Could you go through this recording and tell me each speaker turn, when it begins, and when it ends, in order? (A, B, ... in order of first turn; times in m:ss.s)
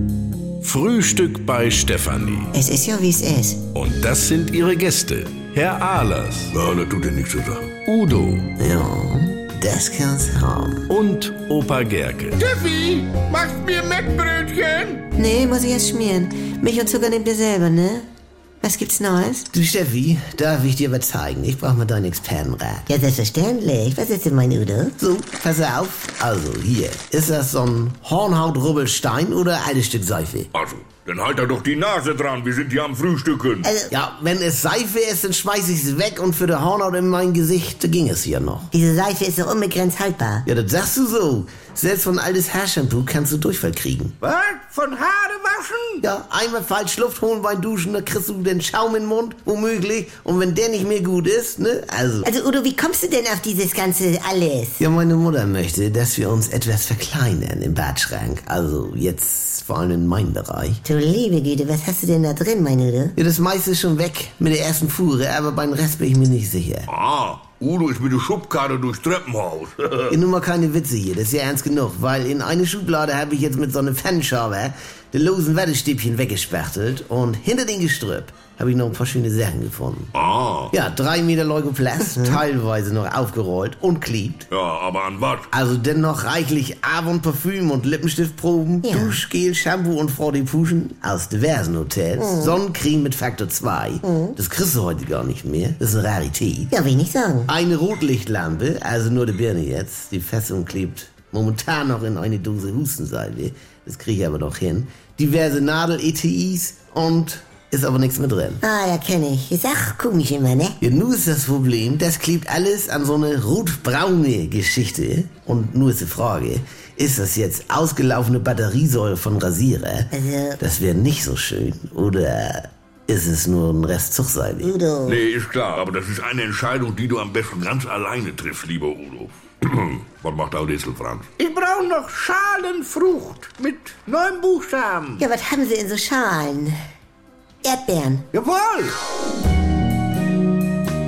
0:00.6-0:02.6 A
0:02.6-0:03.6 B
0:03.7-0:06.6 A
0:06.5-0:07.7 C
0:07.7-0:08.5 A
0:08.6-0:10.8 D
0:10.9-0:12.5 A
0:12.4-0:15.1 E
0:15.2-0:18.1 B
0:18.6-0:19.5 B
0:19.5-0:22.9 D
0:22.9-0:24.9 B
0:25.0-0:30.5 D
0:30.5-0:33.7 C
0:33.6-0:33.9 B
0:33.9-0:38.7 D
0:38.7-0:40.4 B
0:40.4-0:44.2 D
0:44.2-0:46.0 E
0:46.0-0:52.3 D
0:52.2-0:54.8 B
0:54.8-1:00.8 D
1:00.8-1:03.2 B
1:03.2-1:06.9 D
1:06.9-1:10.2 C
1:10.1-1:20.1 D
1:20.1-1:20.7 C
1:20.7-1:24.5 D
1:24.5-1:25.5 C
1:25.5-1:36.7 D
1:28.8-1:29.2 B
1:32.2-1:32.6 B
1:34.0-1:34.4 B
1:36.7-1:37.5 B
1:37.5-1:48.6 D
1:48.6-1:50.8 B
1:50.8-2:04.7 D
2:00.1-2:00.6 B
2:04.6-2:05.2 B
2:05.0-2:11.3 C
2:11.4-2:15.2 E
2:15.2-2:16.8 B
2:17.6-2:18.2 B
2:18.3-2:19.0 E